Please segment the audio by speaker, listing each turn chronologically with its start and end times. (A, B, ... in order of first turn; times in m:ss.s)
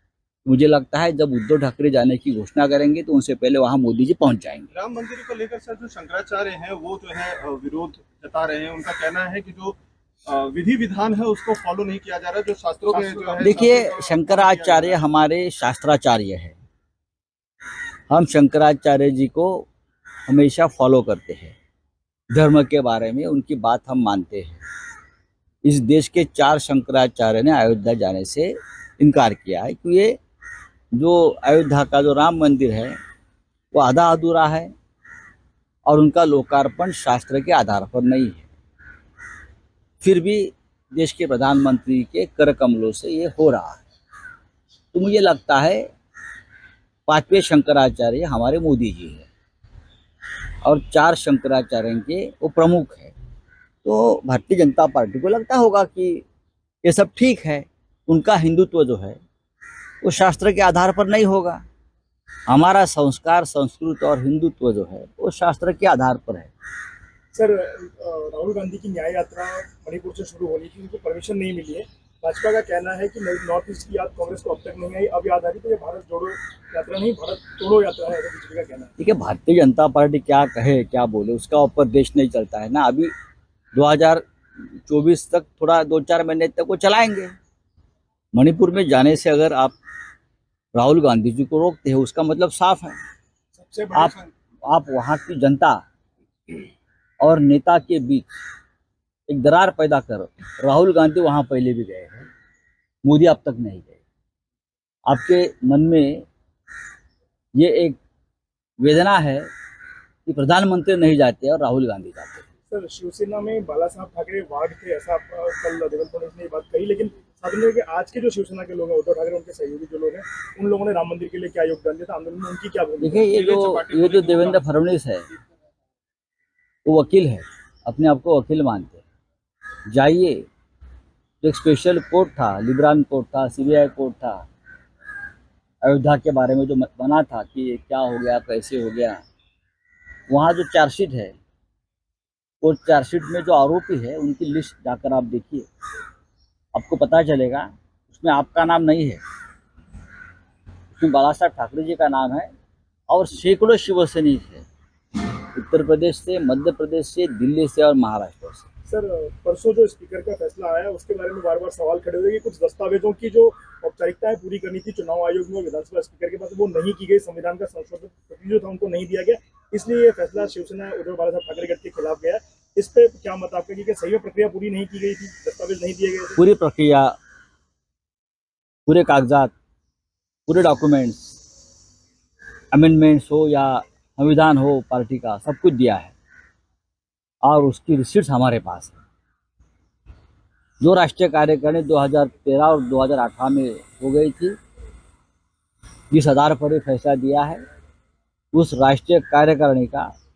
0:00.5-0:04.7 A
0:04.7-0:15.0 B
0:12.9-0:13.7 C
0:13.4-0:16.6 A
0:18.1-0:19.7 A
0:20.3-0:21.6 A
0:22.3-0:24.6 A
0:25.6-0:30.2 A
0:31.0-0:33.0 A
0:33.7-0:34.7 A
0:35.9-0:38.4 A
0:40.0-0:43.8 A
0:44.9-0:45.9 A
0:47.1-0:49.3 A
0:50.6-0:53.1 A
0:53.8-0:56.2 A
0:56.8-0:59.2 A
1:00.0-1:01.6 A
1:02.5-1:06.5 A
1:07.3-1:18.9 C
1:19.0-1:23.1 A
1:23.7-1:24.2 A
1:24.9-1:27.3 A
1:28.3-1:29.8 A
1:30.8-1:33.0 A
1:33.6-1:34.3 C
1:34.7-1:35.8 A
1:37.2-1:38.3 A
1:39.3-1:42.3 A
1:43.0-1:44.0 A
1:45.1-1:46.2 A
1:47.6-1:48.0 A
1:48.8-1:49.5 A
1:50.3-1:52.4 A
1:52.7-2:03.4 C
2:03.0-2:05.3 A
2:03.3-2:04.6 B
2:06.8-2:09.0 A
2:09.9-2:10.5 A
2:11.4-2:14.5 A
2:15.8-2:19.2 A
2:20.3-2:21.3 A
2:22.6-2:25.7 A
2:26.7-2:29.2 A
2:31.0-2:32.5 A
2:33.1-2:34.6 A
2:35.5-2:38.6 A
2:38.9-2:56.4 C
2:56.4-2:57.2 A
2:58.9-2:59.5 A
3:00.5-3:01.3 A
3:02.7-3:06.1 A
3:07.4-3:09.0 A
3:10.8-3:14.6 A
3:16.1-3:17.6 A
3:18.5-3:20.1 A